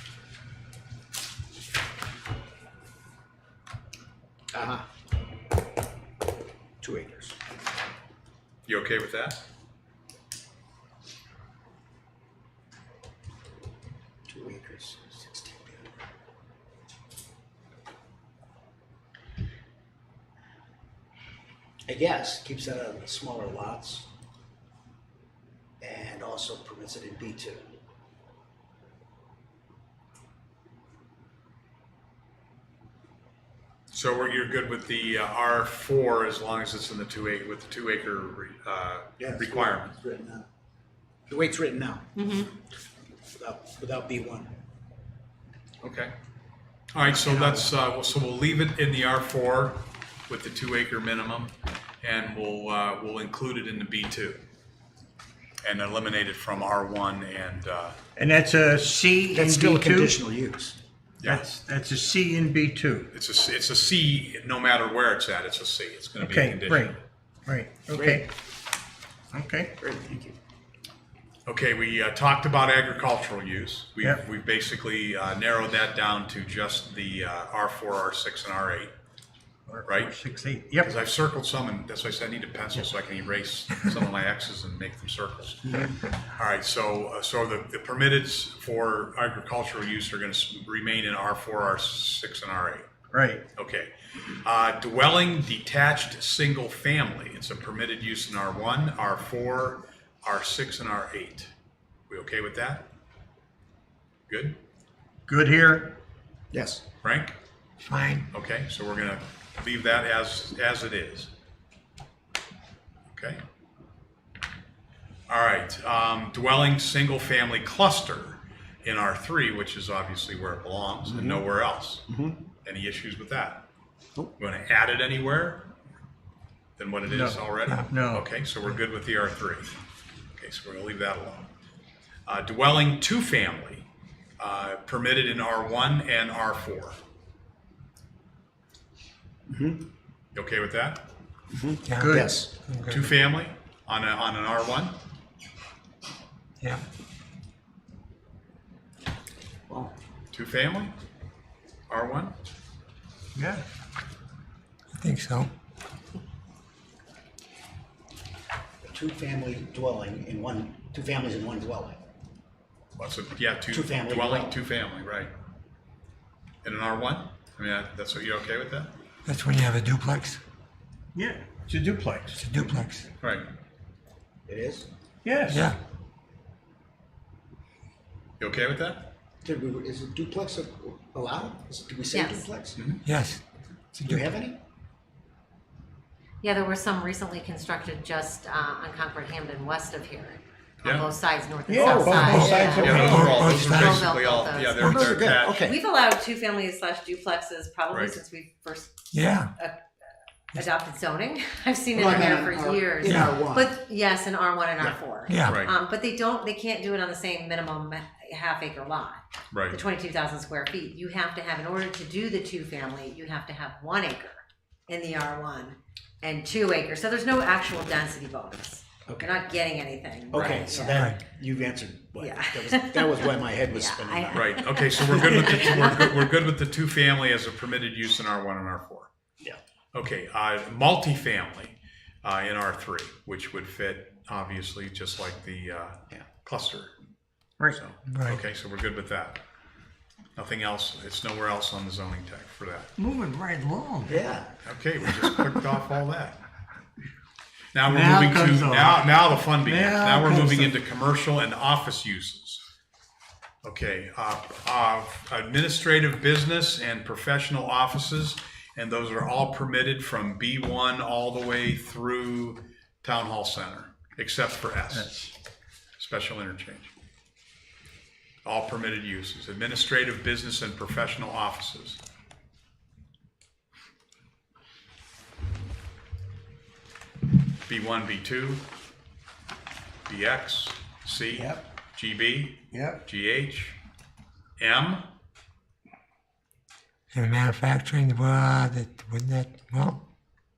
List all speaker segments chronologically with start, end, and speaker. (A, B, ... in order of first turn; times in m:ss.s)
0:04.5-0:04.8 A
0:06.8-0:07.4 A
0:08.6-0:09.4 B
0:14.3-0:15.9 A
0:21.9-0:24.1 A
0:25.8-0:27.7 A
0:33.9-0:40.0 B
0:39.2-0:40.5 A
0:41.3-0:42.1 A
0:42.2-0:42.5 C
0:43.4-0:44.5 A
0:45.8-0:46.1 B
0:46.9-0:54.4 B
0:47.2-0:47.7 A
0:55.6-0:58.0 B
0:58.2-1:00.2 D
0:59.3-1:00.8 A
1:01.2-1:01.5 B
1:01.2-1:03.1 D
1:03.1-1:07.0 B
1:06.2-1:08.3 D
1:07.9-1:08.2 A
1:09.3-1:09.8 D
1:09.8-1:10.3 A
1:11.4-1:18.9 B
1:19.7-1:20.9 D
1:19.8-1:20.1 B
1:20.8-1:32.9 B
1:33.1-1:33.4 D
1:33.6-1:41.5 B
1:42.1-1:42.9 B
1:44.3-1:44.6 B
1:45.3-1:45.9 D
1:46.5-1:46.8 A
1:47.0-1:47.3 B
1:47.8-1:48.3 E
1:48.3-1:51.3 B
1:53.1-1:53.4 B
1:55.3-2:02.1 B
2:01.0-2:01.5 A
2:02.1-2:02.4 A
2:02.6-2:03.6 B
2:04.4-2:05.7 B
2:06.8-2:09.7 B
2:07.0-2:08.3 D
2:10.3-2:11.5 B
2:12.2-2:13.9 B
2:14.4-2:17.0 B
2:19.5-2:19.8 A
2:20.3-2:21.1 B
2:21.5-2:22.5 A
2:21.9-2:23.1 E
2:22.0-2:22.4 D
2:22.9-2:25.0 B
2:29.7-2:29.9 A
2:30.3-2:31.0 B
2:31.9-2:32.3 B
2:33.3-2:33.6 D
2:34.9-2:35.5 E
2:38.8-2:42.0 A
2:43.0-2:45.3 B
2:43.7-2:44.6 A
2:46.6-2:48.9 B
2:49.2-2:50.4 E
2:51.2-2:52.4 D
2:52.4-2:53.1 E
2:53.2-2:53.5 B
2:54.5-2:54.9 A
2:55.2-2:55.7 D
2:55.5-2:55.8 E
2:58.4-2:59.1 B
2:59.4-3:02.8 A
3:02.1-3:02.5 C
3:02.8-3:03.0 B
3:03.0-3:03.4 E
3:04.0-3:04.2 E
3:04.0-3:04.6 A
3:06.4-3:19.8 C
3:11.7-3:13.4 D
3:11.8-3:13.2 A
3:12.2-3:14.2 E
3:12.8-3:15.7 B
3:14.8-3:15.8 A
3:17.9-3:18.2 B
3:19.1-3:19.5 E
3:20.5-3:41.1 C
3:21.9-3:23.7 A
3:23.0-3:23.3 E
3:25.3-3:25.6 E
3:25.5-3:25.7 B
3:29.5-3:29.8 B
3:39.1-3:39.3 A
3:40.3-3:44.6 A
3:40.3-3:40.6 B
3:42.2-3:46.2 C
3:44.3-3:49.1 B
3:45.1-3:45.6 A
3:49.9-3:57.0 B
3:57.7-3:59.4 B
3:58.1-3:58.4 E
4:00.4-4:02.9 B
4:03.0-4:04.2 D
4:04.1-4:04.6 A
4:04.6-4:06.4 B
4:07.7-4:12.6 B
4:07.8-4:10.7 D
4:13.6-4:25.1 B
4:24.9-4:25.3 D
4:26.0-4:26.9 B
4:28.4-4:32.0 B
4:37.7-4:38.6 B
4:40.1-4:43.8 B
4:41.3-4:41.6 D
4:42.7-4:43.0 D
4:44.6-4:45.1 B
4:47.1-4:50.0 E